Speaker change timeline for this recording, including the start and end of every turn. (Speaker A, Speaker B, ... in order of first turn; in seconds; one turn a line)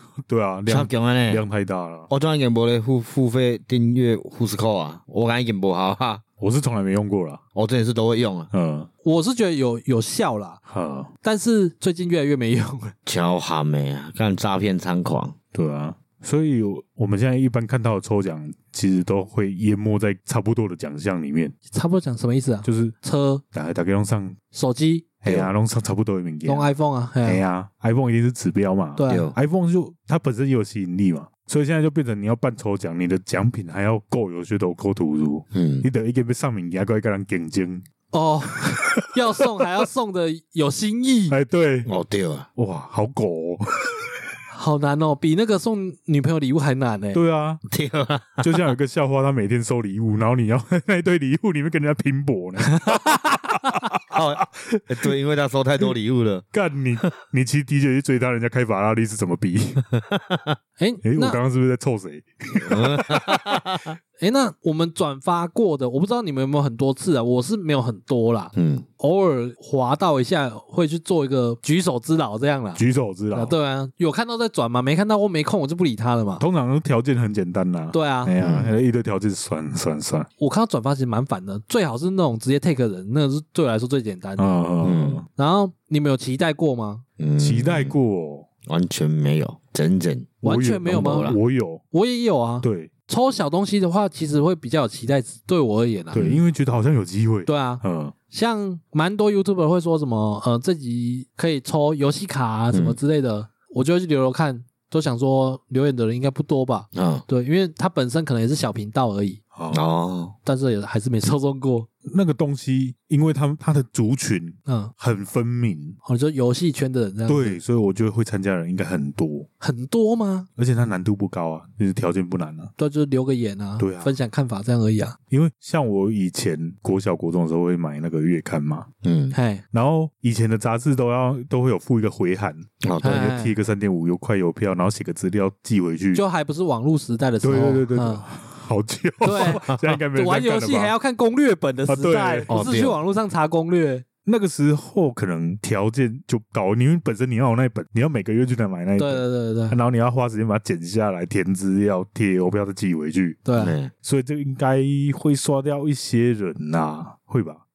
Speaker A: 0.3-2.1
Speaker B: 0.7-1.4
Speaker B: 2.1-6.2
Speaker A: 6.4-7.4
Speaker B: 7.5-8.5
Speaker A: 8.5-8.9
Speaker C: 9.0-10.6
Speaker A: 10.7-11.1
Speaker C: 11.2-12.9
Speaker B: 13.1-15.3
Speaker A: 15.5-21.5
Speaker C: 21.7-23.4
Speaker A: 22.6-22.9
Speaker A: 23.5-24.4
Speaker C: 24.5-25.1
Speaker A: 25.2-26.7
Speaker B: 25.2-25.5
Speaker C: 26.4-27.4
Speaker A: 27.2-37.8
Speaker C: 28.9-29.3
Speaker B: 29.1-29.3
Speaker B: 35.5-35.9
Speaker C: 38.1-41.4
Speaker A: 41.3-41.9
Speaker B: 41.9-42.5
Speaker A: 42.5-44.1
Speaker C: 44.5-47.2
Speaker A: 47.1-47.6
Speaker B: 47.7-48.6
Speaker A: 48.4-53.0
Speaker C: 52.7-53.0
Speaker A: 53.5-53.8
Speaker B: 54.1-56.5
Speaker A: 54.6-55.1
Speaker A: 56.5-59.8
Speaker B: 60.1-60.5
Speaker C: 60.8-61.4
Speaker A: 61.0-63.6
Speaker B: 62.7-64.0
Speaker C: 64.2-72.8
Speaker B: 68.5-68.8
Speaker A: 72.8-73.5
Speaker C: 73.3-76.4
Speaker A: 76.4-80.3
Speaker C: 77.9-78.3
Speaker B: 78.4-78.7
Speaker C: 80.4-84.6
Speaker A: 84.4-85.2
Speaker B: 84.8-85.2
Speaker C: 85.3-87.0
Speaker B: 87.2-87.9
Speaker A: 87.4-88.5
Speaker B: 88.7-91.4
Speaker C: 90.4-91.3
Speaker A: 90.4-91.8
Speaker C: 91.9-96.2
Speaker A: 92.6-92.9
Speaker B: 96.1-96.4
Speaker A: 96.1-98.1
Speaker C: 97.5-109.4
Speaker B: 102.7-103.0
Speaker B: 106.9-107.2
Speaker A: 109.5-109.8
Speaker B: 109.7-110.3
Speaker C: 110.4-111.9
Speaker A: 112.0-116.0
Speaker C: 114.7-114.9
Speaker C: 116.0-117.6
Speaker A: 117.3-119.5
Speaker C: 119.6-120.5
Speaker A: 120.5-122.7
Speaker C: 122.8-125.2
Speaker A: 123.8-124.1
Speaker A: 125.3-128.9
Speaker B: 129.0-129.3
Speaker C: 129.3-129.6
Speaker A: 129.7-136.2
Speaker B: 132.8-133.2
Speaker C: 133.0-133.5
Speaker C: 136.1-138.2
Speaker A: 137.4-140.9
Speaker C: 139.2-144.0
Speaker B: 139.3-139.8
Speaker A: 141.9-142.5
Speaker B: 142.5-142.9
Speaker A: 144.2-153.4
Speaker C: 149.0-149.8
Speaker C: 153.4-153.8
Speaker B: 153.6-153.9
Speaker A: 154.0-157.6